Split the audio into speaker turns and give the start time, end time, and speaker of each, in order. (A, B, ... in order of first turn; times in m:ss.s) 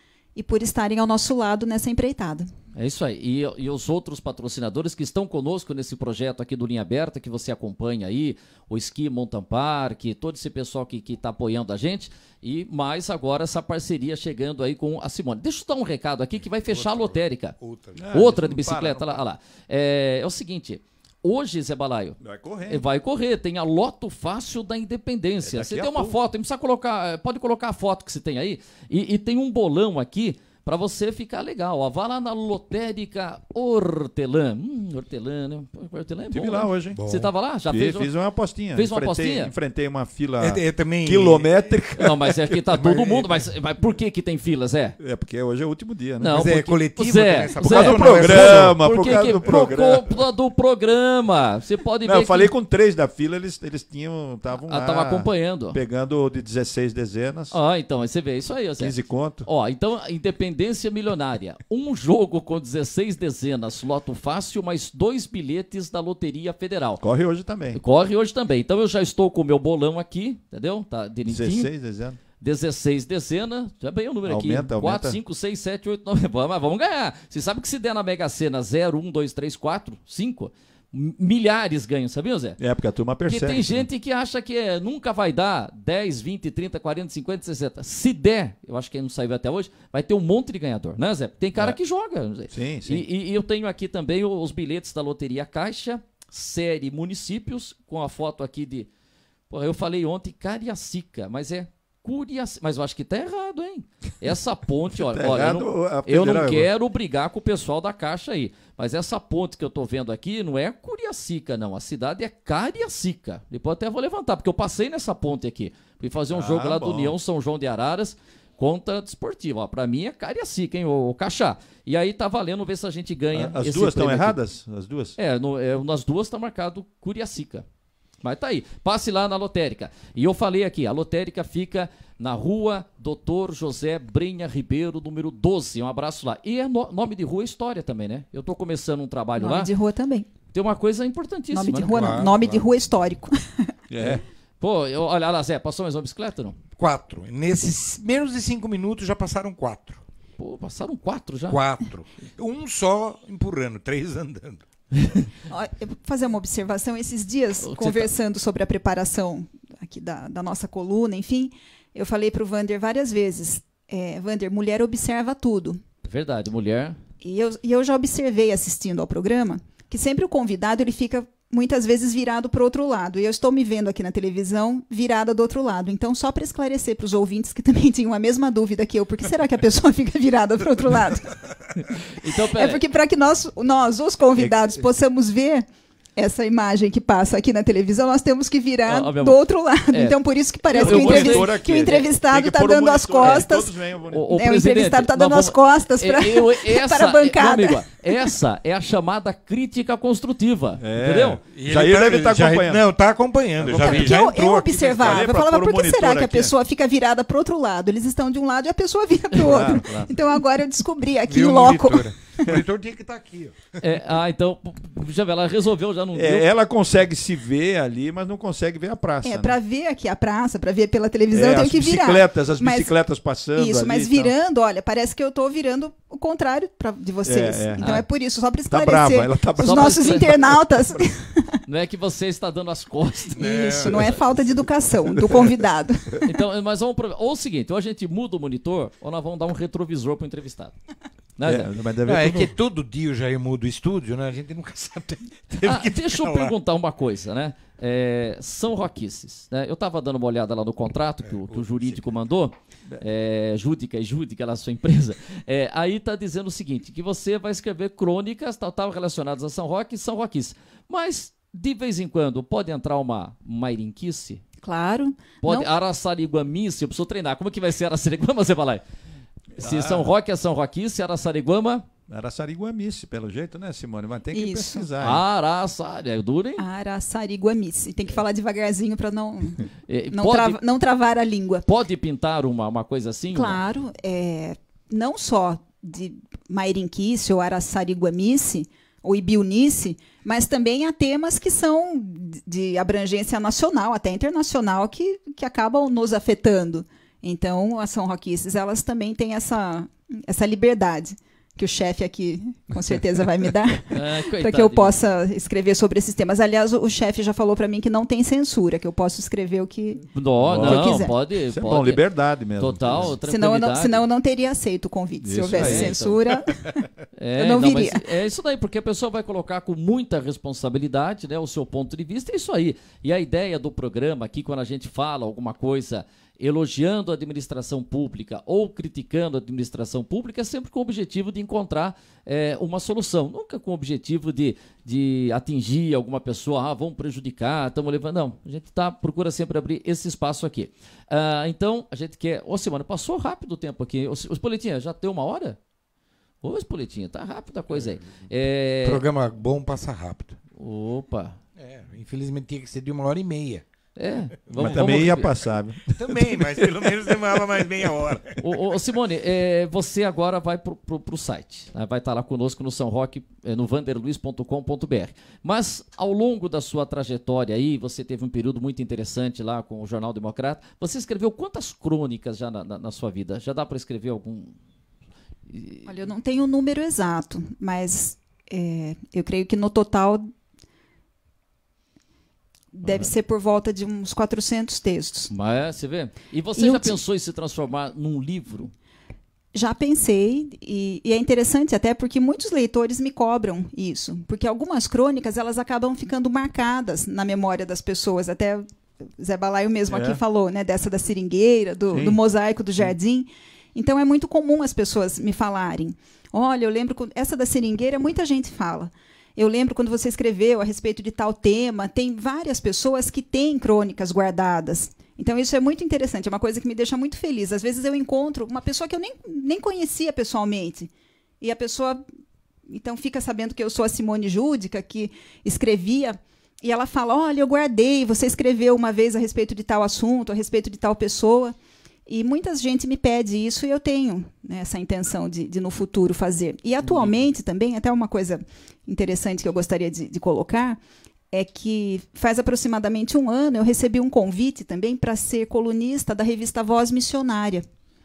0:00.4-0:02.5 A
0:02.7-0:17.6 B
0:16.6-0:18.1 C
0:18.0-0:19.2 D
0:18.1-0:38.1 B
0:22.2-0:22.8 D
0:25.4-0:26.2 D
0:36.3-0:37.0 D
0:37.0-0:37.3 C
0:37.7-0:42.6 D
0:38.7-0:39.5 B
0:40.4-0:41.6 C
0:42.0-0:45.0 B
0:42.8-0:43.4 C
0:45.0-0:46.6 D
0:46.2-0:52.5 B
0:46.3-0:48.8 C
0:47.6-0:50.2 D
0:52.0-0:57.6 D
0:54.6-0:55.8 B
0:57.5-0:58.9 B
0:58.8-0:59.5 D
0:59.4-1:07.0 B
1:07.0-1:07.8 D
1:07.7-1:11.7 B
1:11.3-1:12.2 D
1:12.4-1:22.6 B
1:14.2-1:15.2 D
1:22.6-1:23.9 D
1:23.2-1:38.9 B
1:32.5-1:33.0 D
1:39.5-2:04.4 B
1:44.9-1:46.7 D
1:56.3-1:57.2 D
2:03.3-2:05.2 D
2:05.2-2:07.6 B
2:08.2-2:19.7 B
2:19.4-2:20.2 A
2:20.5-2:21.9 B
2:21.5-2:23.7 A
2:21.9-2:22.7 C
2:23.9-2:24.2 D
2:24.6-2:26.6 B
2:26.8-2:30.0 C
2:30.4-2:31.6 B
2:31.5-2:34.6 C
2:34.9-2:35.3 B
2:35.5-2:45.8 A
2:37.6-2:38.1 B
2:46.0-2:47.0 B
2:47.2-3:01.4 A
3:01.7-3:02.8 B
3:02.5-3:05.6 A
3:06.2-3:13.7 A
3:08.9-3:09.4 B
3:09.9-3:10.2 B
3:10.7-3:11.4 B
3:10.7-3:14.2 D
3:13.2-3:13.4 B
3:14.1-3:21.4 B
3:14.3-3:18.3 A
3:20.8-3:22.8 D
3:21.5-3:25.2 C
3:23.6-3:24.3 D
3:23.7-3:32.5 A
3:24.9-3:26.5 D
3:29.4-3:30.2 D
3:31.3-3:33.6 C
3:33.8-3:36.5 B
3:36.1-3:39.6 D
3:39.2-3:42.9 A
3:41.3-3:44.3 D
3:43.6-3:51.6 A
3:47.2-3:48.0 D
3:48.7-3:51.1 D
3:49.6-3:50.4 B
3:51.7-3:53.5 B
3:53.3-3:54.3 C
3:53.4-3:56.3 A
3:53.8-3:54.1 D
3:56.2-4:00.7 B
4:01.4-4:01.7 B
4:01.4-4:02.5 D
4:02.0-4:06.6 C
4:05.6-4:24.4 B
4:11.2-4:12.1 C
4:24.6-4:25.7 A
4:25.4-4:28.8 B
4:29.6-4:30.1 D
4:29.6-4:31.8 B
4:32.1-4:35.2 D
4:34.3-4:34.9 A
4:35.0-4:36.6 B
4:36.6-4:41.6 A
4:39.9-4:40.6 B
4:41.7-4:43.6 B
4:43.3-5:11.1 A
5:03.9-5:05.0 B
5:10.1-5:12.0 B
5:10.4-5:13.1 D
5:12.6-5:14.0 B
5:13.3-5:18.0 A
5:15.2-5:16.3 D
5:15.5-5:16.2 B
5:17.2-5:45.6 B
5:46.4-5:49.0 B
5:47.7-5:48.2 C
5:48.8-5:50.4 C
5:50.6-5:51.4 B
5:51.6-5:53.6 C
5:54.0-5:55.3 B
5:54.5-5:55.3 C
5:54.6-5:57.1 D
5:55.8-5:58.4 C
5:58.4-6:14.6 B
6:15.5-6:15.9 B
6:15.9-6:20.3 A
6:22.7-6:25.3 A
6:25.3-6:28.7 B
6:26.6-6:27.0 A
6:29.6-6:38.6 A
6:39.2-7:02.0 A
6:39.9-6:40.2 D
6:41.9-6:42.2 D
7:02.7-7:11.5 A
7:12.1-7:20.8 A
7:21.3-7:27.6 A